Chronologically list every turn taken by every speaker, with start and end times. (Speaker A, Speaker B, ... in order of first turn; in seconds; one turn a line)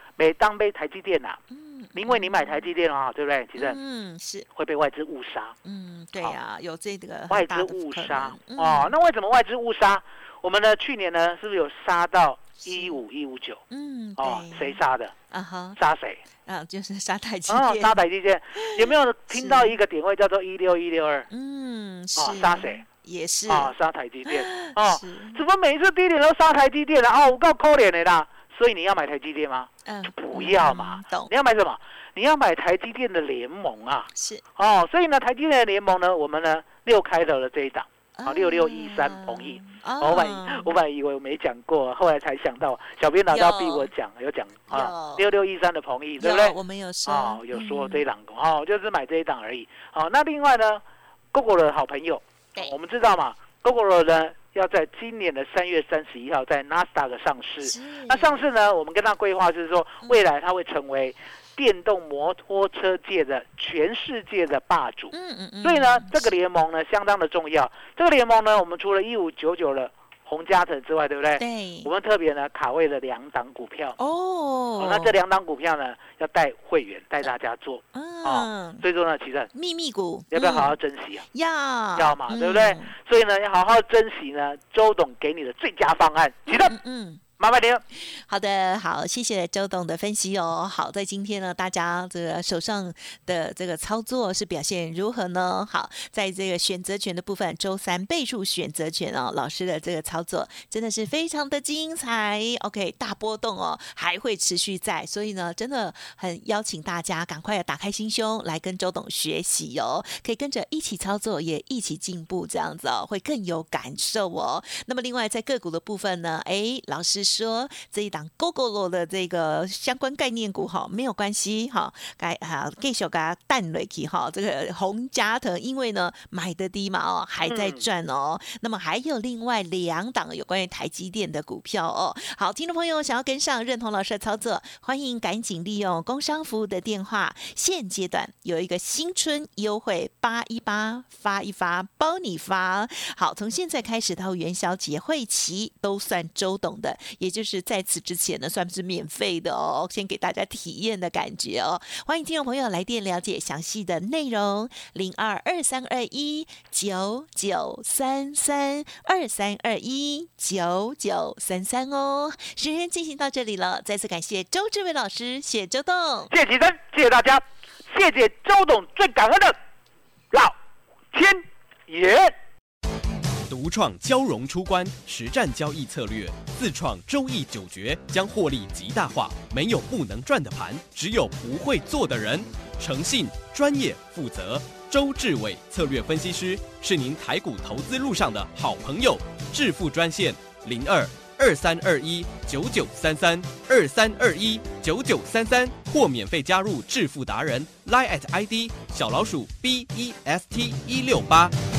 Speaker A: 0.2-1.4
Speaker B: 1.5-2.7
Speaker A: 1.9-3.8
Speaker B: 3.5-4.5
Speaker A: 4.5-5.5
Speaker B: 5.6-8.9
Speaker A: 7.3-13.6
Speaker B: 12.6-13.0
Speaker B: 13.7-14.8
Speaker A: 14.2-15.1
Speaker B: 15.3-15.8
Speaker A: 15.8-16.2
Speaker B: 16.4-18.0
Speaker A: 17.5-21.3
Speaker B: 18.6-19.8
Speaker B: 21.3-23.7
Speaker A: 22.2-22.8
Speaker A: 23.5-50.8
Speaker B: 24.2-25.4
Speaker B: 29.9-31.3
Speaker B: 34.1-34.4
Speaker B: 38.1-40.7
Speaker B: 43.3-43.9
Speaker B: 44.7-45.2
Speaker B: 46.2-48.0
Speaker A: 51.3-74.0
Speaker B: 57.6-58.4
Speaker B: 65.1-66.3
Speaker B: 71.4-71.9
Speaker B: 74.0-75.2
Speaker A: 74.8-79.5
Speaker B: 77.9-78.8
Speaker B: 79.5-80.8
Speaker A: 80.3-81.2
Speaker B: 81.3-82.9
Speaker A: 82.0-86.8
Speaker B: 86.5-87.2
Speaker A: 87.4-87.8
Speaker B: 88.0-166.3
Speaker A: 127.4-127.8
Speaker A: 166.3-169.6
Speaker A: 171.1-172.3
Speaker C: 173.5-201.5